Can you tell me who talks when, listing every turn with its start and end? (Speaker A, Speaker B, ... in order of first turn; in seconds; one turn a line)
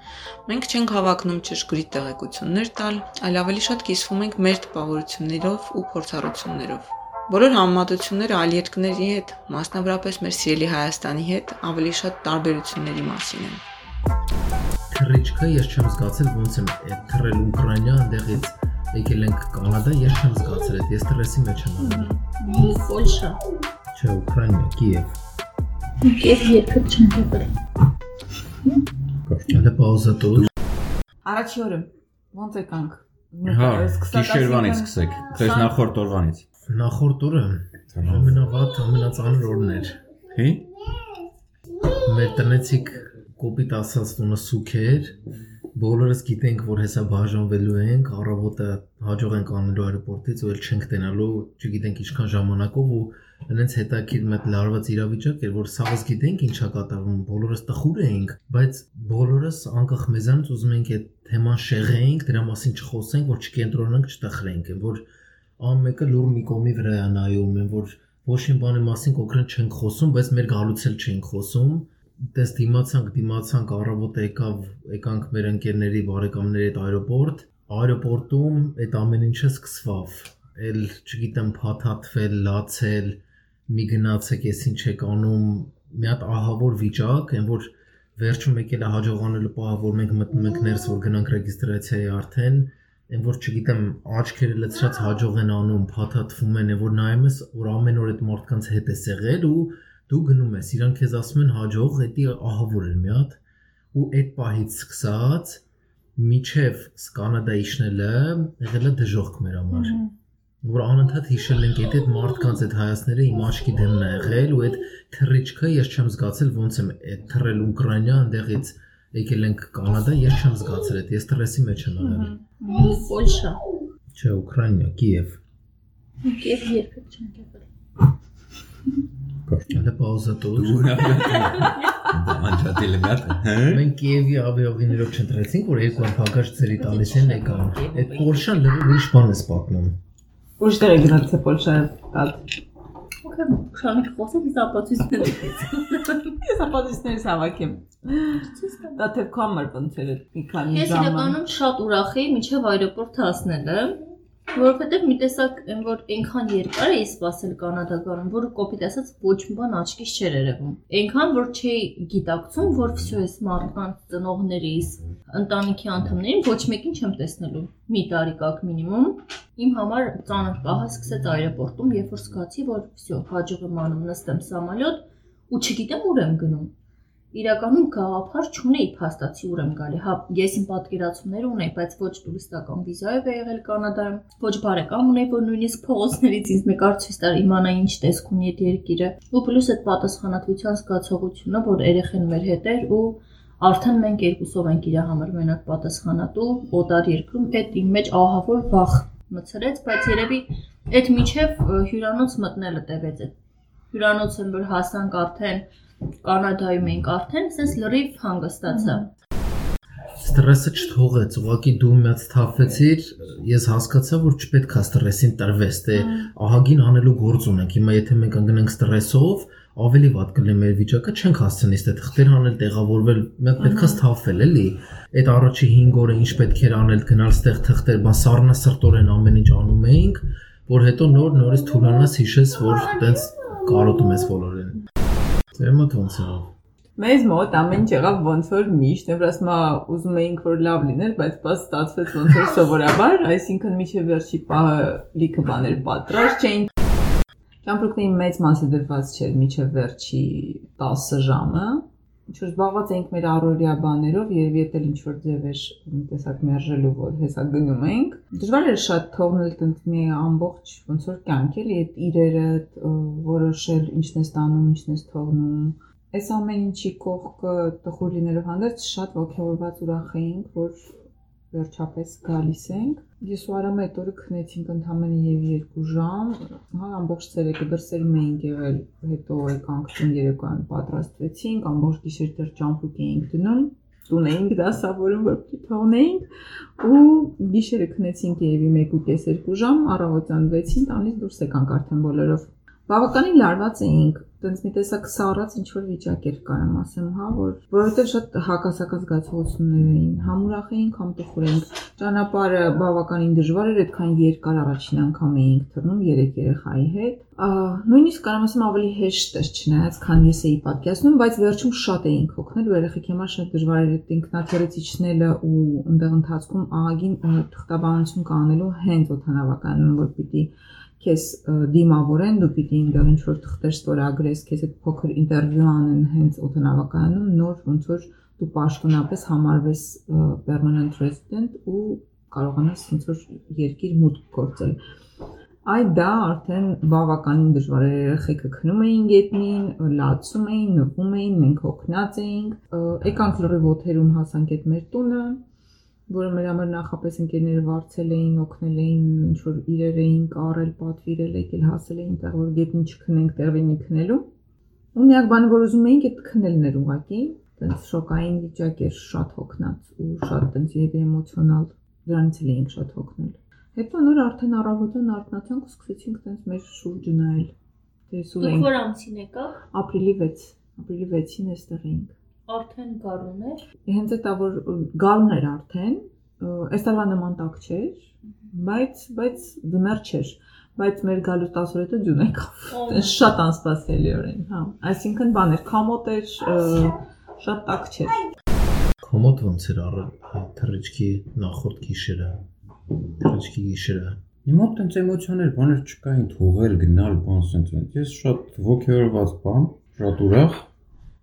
Speaker A: 0.5-13.6
Speaker B: 14.9-22.1
Speaker C: 21.8-22.2
Speaker D: 22.4-23.4
Speaker B: 23.9-25.2
Speaker D: 26.0-27.5
Speaker E: 29.3-29.6
Speaker B: 29.5-30.5
Speaker C: 31.2-35.7
Speaker E: 33.4-36.4
Speaker B: 36.7-40.0
Speaker E: 37.9-38.4
Speaker E: 40.3-40.7
Speaker B: 42.0-45.1
Speaker B: 45.8-65.0
Speaker B: 65.6-103.4
Speaker B: 103.9-105.6
Speaker B: 106.2-110.0
Speaker C: 109.7-110.1
Speaker B: 110.6-122.3
Speaker C: 122.0-122.4
Speaker D: 122.6-123.6
Speaker B: 124.2-125.4
Speaker D: 126.2-127.7
Speaker E: 129.5-129.8
Speaker B: 129.7-130.8
Speaker E: 130.6-133.8
Speaker B: 133.7-140.0
Speaker C: 136.8-138.4
Speaker C: 140.6-142.4
Speaker D: 143.2-146.3
Speaker C: 146.4-151.4
Speaker D: 148.5-149.0
Speaker D: 150.7-154.0
Speaker D: 154.5-176.7
Speaker D: 177.3-203.3
Speaker D: 203.9-205.7
Speaker D: 206.2-209.1
Speaker C: 208.7-209.0
Speaker B: 210.2-234.8
Speaker C: 215.9-216.3
Speaker C: 223.6-224.0
Speaker B: 235.5-236.5
Speaker C: 237.0-246.7
Speaker C: 247.6-270.9
Speaker C: 271.5-286.3
Speaker C: 286.8-334.8
Speaker C: 335.6-345.4
Speaker C: 346.1-354.3
Speaker C: 354.9-367.5
Speaker C: 368.1-368.7
Speaker D: 368.4-369.6
Speaker C: 369.7-372.1
Speaker D: 372.5-373.6
Speaker C: 373.9-388.2
Speaker D: 382.7-383.2
Speaker B: 389.0-392.4
Speaker B: 393.2-394.2
Speaker E: 394.4-400.7